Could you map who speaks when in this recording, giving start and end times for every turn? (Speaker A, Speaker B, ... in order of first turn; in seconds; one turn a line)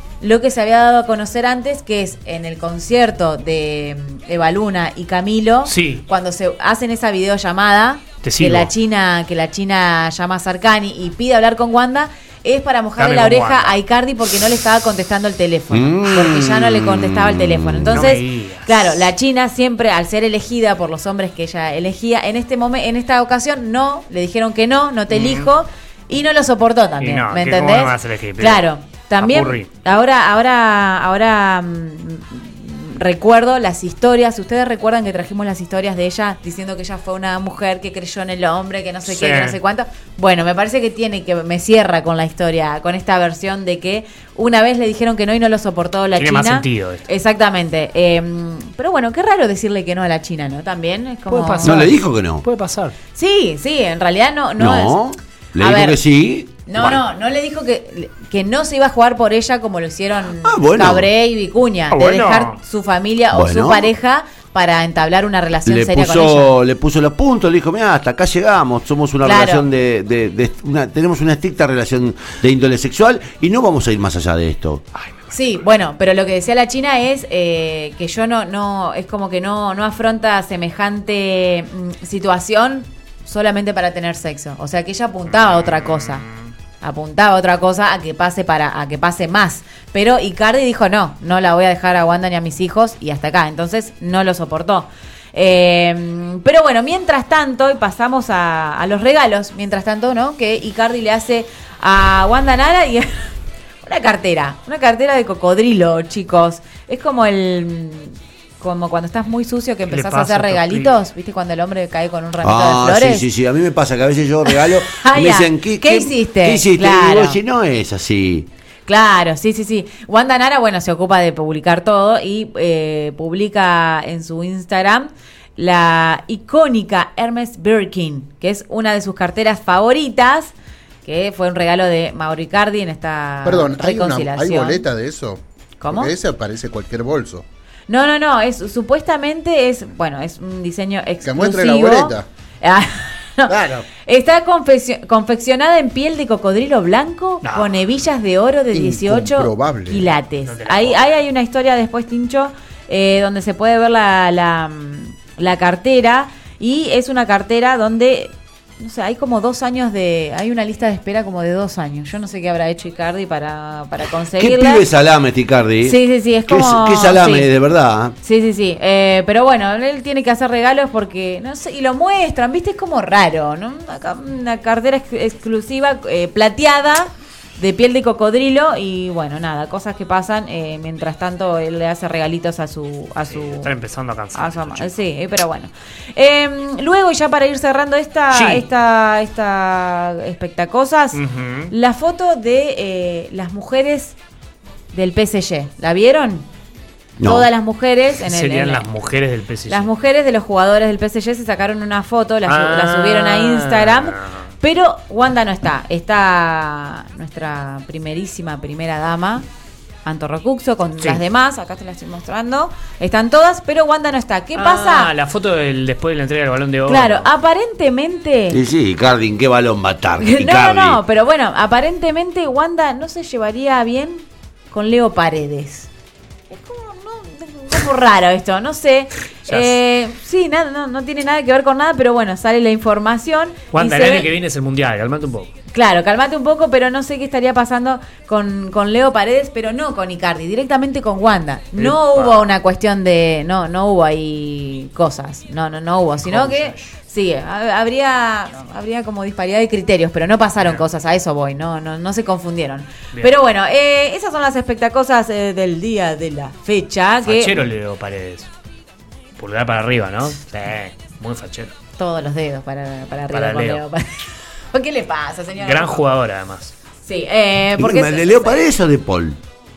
Speaker A: 0.2-51.8
Speaker B: 5.7-6.0
Speaker B: 8.2-8.7
Speaker B: 13.0-13.8
Speaker C: 15.7-18.1
Speaker B: 17.9-19.0
Speaker B: 25.1-25.5
Speaker B: 27.0-28.6
Speaker B: 29.2-29.7
Speaker B: 39.1-39.6
Speaker B: 46.1-47.0
Speaker B: 51.3-52.9
Speaker C: 51.6-52.4
Speaker A: 53.1-55.0
Speaker C: 54.6-56.6
Speaker A: 55.6-56.0
Speaker A: 56.6-66.5
Speaker C: 60.4-61.1
Speaker B: 61.9-62.6
Speaker C: 63.3-63.9
Speaker C: 65.7-74.8
Speaker A: 69.2-69.7
Speaker B: 74.9-75.5
Speaker A: 75.3-86.2
Speaker B: 85.3-86.5
Speaker A: 86.8-103.3
Speaker A: 103.8-113.3
Speaker B: 109.9-111.0
Speaker C: 112.4-118.5
Speaker A: 114.4-117.4
Speaker A: 118.9-134.8
Speaker D: 133.4-137.4
Speaker A: 135.8-136.1
Speaker A: 137.9-164.8
Speaker D: 141.2-142.3
Speaker D: 143.5-143.9
Speaker B: 147.4-147.7
Speaker D: 148.7-150.1
Speaker B: 150.4-151.1
Speaker C: 164.4-168.2
Speaker A: 165.8-167.5
Speaker A: 168.2-183.7
Speaker B: 183.3-184.9
Speaker A: 184.3-194.2
Speaker B: 188.3-188.7
Speaker B: 191.1-191.7
Speaker A: 194.9-196.5
Speaker C: 197.2-197.5
Speaker A: 197.2-198.9
Speaker B: 198.2-199.9
Speaker A: 199.7-209.4
Speaker B: 202.4-204.5
Speaker A: 210.0-215.1
Speaker B: 214.5-217.3
Speaker A: 216.9-218.6
Speaker C: 218.5-221.0
Speaker A: 220.2-225.9
Speaker A: 226.5-234.3
Speaker B: 229.5-229.7
Speaker B: 233.7-235.5
Speaker A: 235.7-257.6
Speaker B: 241.8-242.5
Speaker B: 246.2-246.9
Speaker B: 257.2-258.5
Speaker B: 259.4-261.7
Speaker A: 262.0-266.0
Speaker B: 263.3-263.8
Speaker B: 265.6-266.7
Speaker A: 267.0-268.6
Speaker C: 267.8-269.4